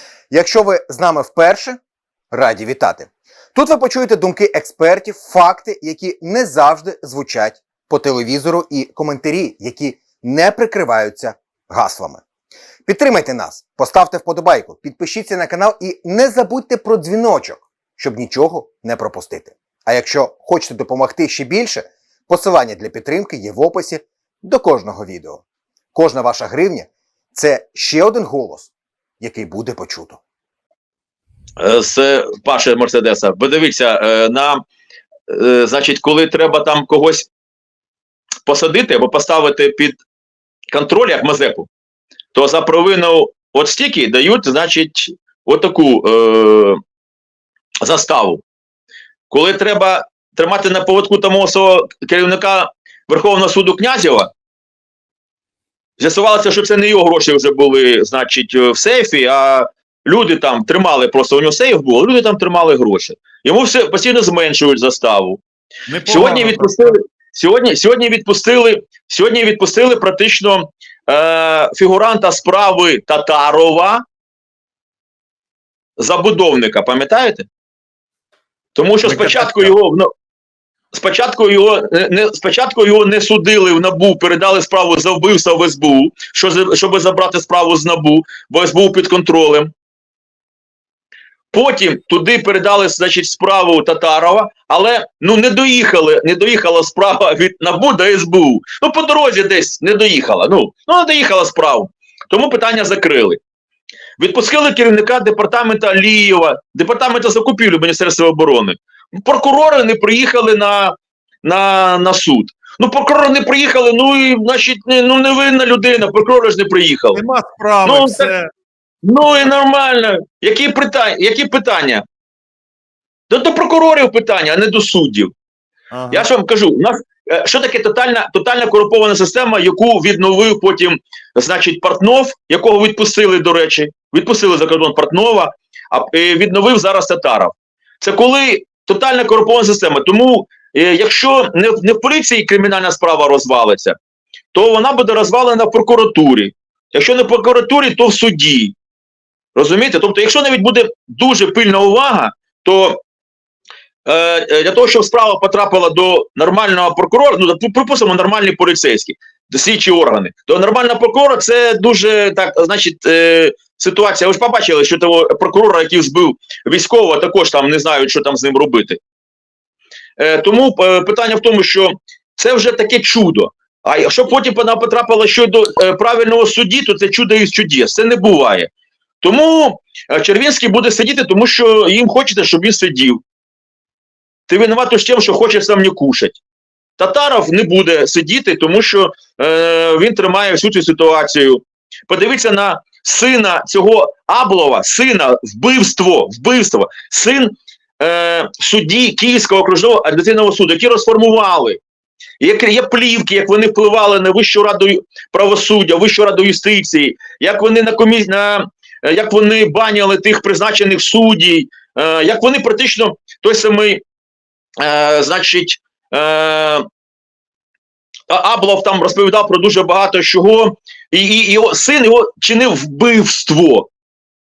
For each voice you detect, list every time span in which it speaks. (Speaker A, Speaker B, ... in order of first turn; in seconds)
Speaker A: 0.3-1.8, 2.3-12.2, 12.9-25.4, 25.9-30.2
Speaker B: 31.6-34.6, 35.3-37.3, 38.5-40.0, 40.7-41.7, 42.3-46.8, 47.8-48.4, 49.3-54.3, 56.0-65.4, 66.1-74.0, 76.0-77.5, 78.8-80.1, 80.9-89.7, 91.5-103.4, 104.2-117.2, 117.8-118.3, 119.0-122.0, 123.3-125.3, 126.1-143.9, 144.5-148.8, 149.6-153.0, 154.1-169.0, 170.2-183.2, 184.5-186.4, 187.0-201.8, 202.4-214.0, 214.8-216.8, 218.3-223.9
Speaker C: 65.9-66.9, 79.0-79.7, 117.1-118.5, 125.9-126.3